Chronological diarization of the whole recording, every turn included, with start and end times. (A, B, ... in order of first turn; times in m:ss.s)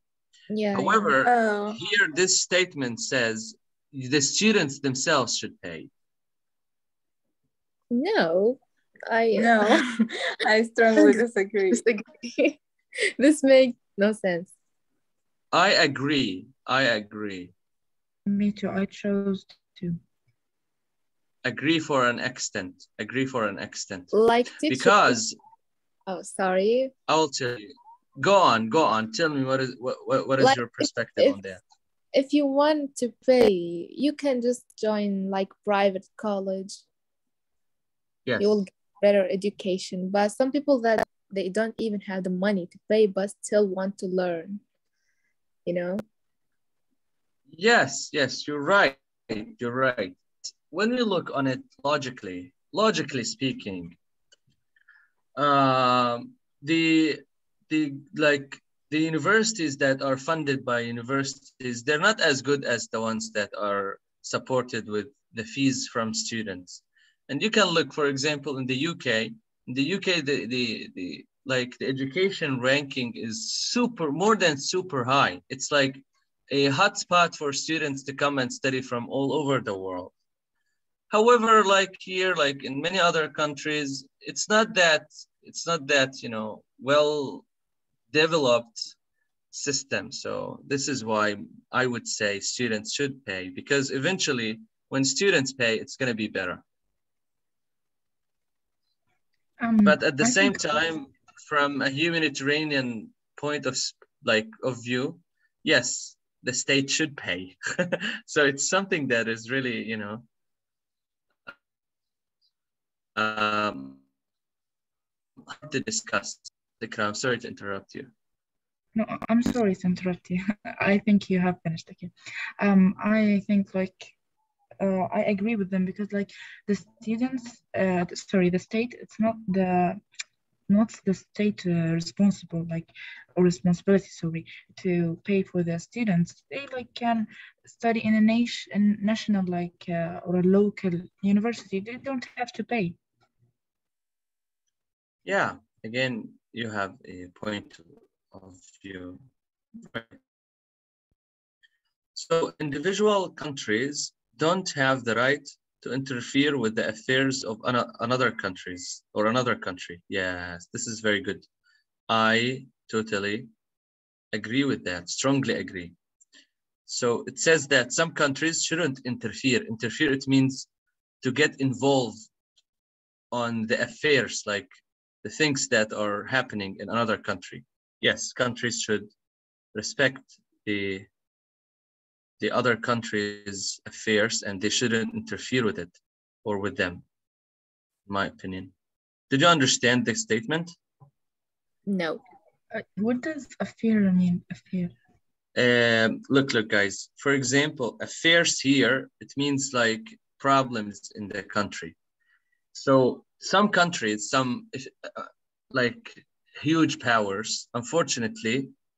0:00.5-0:01.1 A
0:00.7-0:05.9 B
0:01.2-0:01.8 C
0:07.9-0:09.8 A
0:09.4-0:11.8 C
0:11.0-0:12.6 A
0:13.2-0:14.5 A
0:15.5-0:17.5 B
0:18.2-0:20.0 D
0:21.4-0:24.1 B
0:24.1-0:25.2 A
0:24.7-0:25.4 B
0:26.1-0:26.9 A
0:27.1-0:31.6 B
0:30.4-0:31.4 A
0:32.1-0:36.8 A
0:38.2-0:38.6 B
0:38.4-0:44.6 A
0:45.6-0:46.0 A
0:47.5-0:54.0 B
0:55.3-1:20.1 B
1:21.1-1:27.4 B
1:28.1-1:28.9 B
1:29.5-1:36.6 B
1:39.6-1:40.8 D
1:39.8-1:50.2 B
1:53.2-1:54.0 B
1:55.5-1:58.1 B
1:58.9-2:04.2 D
2:04.8-2:10.0 D
2:10.7-2:23.0 D
2:25.2-2:29.2 B
2:29.8-2:30.2 B
2:32.1-2:41.5 B
2:42.1-2:43.5 B
2:44.3-2:45.9 B
2:46.9-2:50.7 B
2:51.2-2:52.2 B
2:53.3-2:54.7 B
2:55.2-2:59.1 B
2:59.7-3:01.1 B
3:02.4-3:07.0 B
3:08.1-3:08.7 B
3:09.3-3:10.7 B
3:11.9-3:12.2 A
3:12.7-3:14.9 D
3:15.6-3:22.0 B
3:22.7-3:28.7 B